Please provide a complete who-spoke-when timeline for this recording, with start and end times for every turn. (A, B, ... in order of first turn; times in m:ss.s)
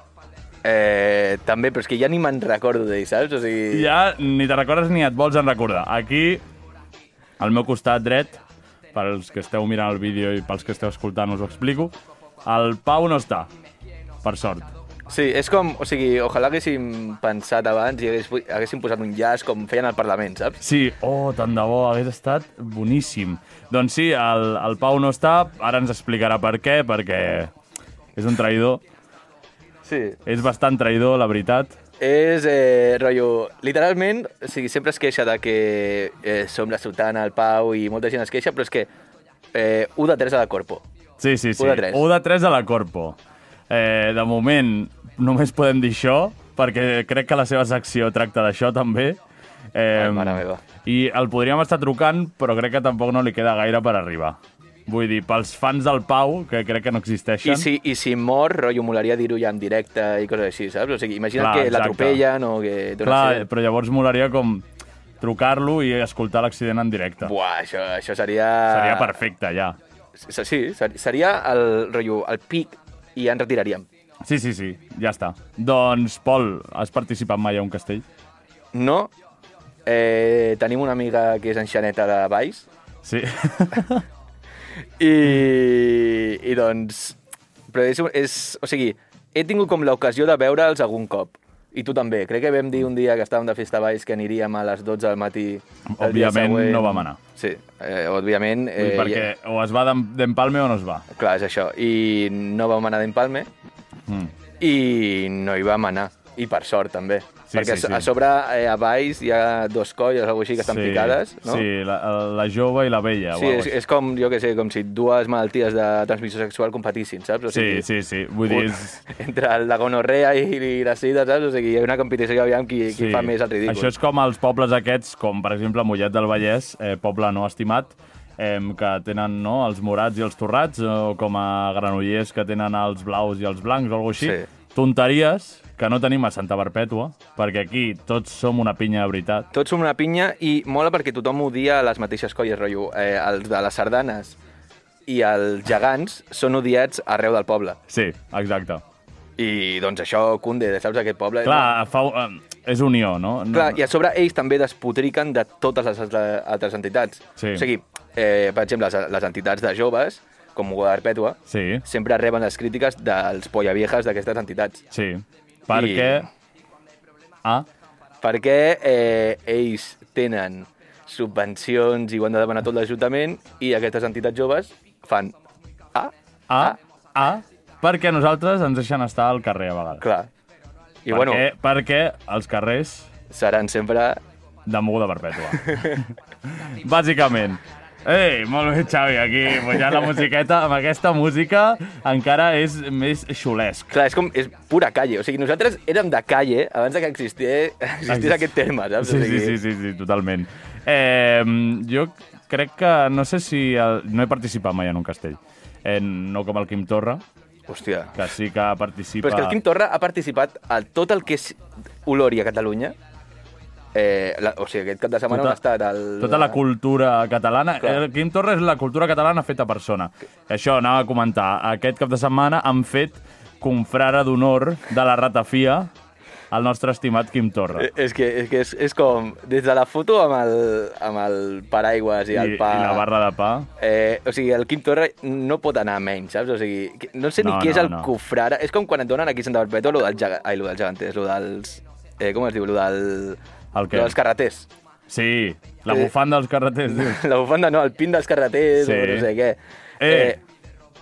0:00.6-0:03.9 A
0:03.7-0:06.4 B
0:07.4-0:08.4 B
0:08.9-0:11.9 B
0:12.4-0:13.5 B
0:14.2-0:14.7 B
0:15.1-0:20.6 A
0:20.6-0:27.5 B
0:28.2-0:28.8 B
0:29.8-0:30.2 A
0:30.2-0:31.7 B
0:32.0-0:38.9 A
0:39.5-0:40.8 A
0:41.2-0:43.2 B
0:41.6-0:42.0 A
0:43.7-0:49.2 B
0:49.7-0:57.7 B
0:49.9-0:50.6 A
0:57.4-1:03.4 A
1:01.4-1:02.2 B
1:03.0-1:04.6 B
1:05.2-1:07.3 B
1:07.2-1:09.1 A
1:08.7-1:09.8 B
1:10.2-1:13.8 A
1:14.2-1:18.0 B
1:18.7-1:19.1 A
1:19.8-1:22.6 A
1:23.0-1:24.0 B
1:25.0-1:27.2 A
1:27.7-1:39.3 A
1:36.0-1:37.2 B
1:38.8-1:41.0 B
1:41.1-1:43.5 A
1:44.6-1:51.6 A
1:47.5-1:48.1 B
1:50.6-1:53.7 B
1:53.3-1:57.8 A
1:57.5-1:59.0 B
1:58.5-2:03.9 A
2:02.9-2:19.5 B
2:14.2-2:14.4 A
2:19.5-2:24.4 A
2:25.1-2:27.8 A
2:27.9-2:28.8 B
2:29.4-2:31.7 A
2:31.4-2:33.8 B
2:33.5-2:44.8 A
2:37.4-2:37.6 B
2:41.5-2:41.8 B
2:44.9-2:46.2 B
2:45.7-2:46.2 A
2:48.2-2:55.3 A
2:55.9-2:56.8 A
2:56.5-3:00.0 B
3:00.0-3:00.3 A
3:01.0-3:01.4 A
3:01.1-3:03.1 B
3:03.3-3:04.2 A
3:04.6-3:06.1 B
3:05.7-3:06.0 A
3:06.6-3:13.9 B
3:13.9-3:19.6 A
3:18.1-3:27.2 B
3:27.7-3:28.1 A
3:28.1-3:29.6 B
3:29.2-3:32.9 A
3:33.9-3:36.6 A
3:35.3-3:35.6 B
3:36.2-3:45.9 B
3:46.5-3:47.9 B
3:47.7-3:53.0 A
3:52.3-3:53.7 B
3:53.8-4:03.4 A
3:57.4-3:58.1 B
4:03.7-4:04.1 B
4:03.9-4:04.7 A
4:05.1-4:07.2 B
4:06.9-4:10.4 A
4:08.8-4:09.3 B
4:10.0-4:10.4 B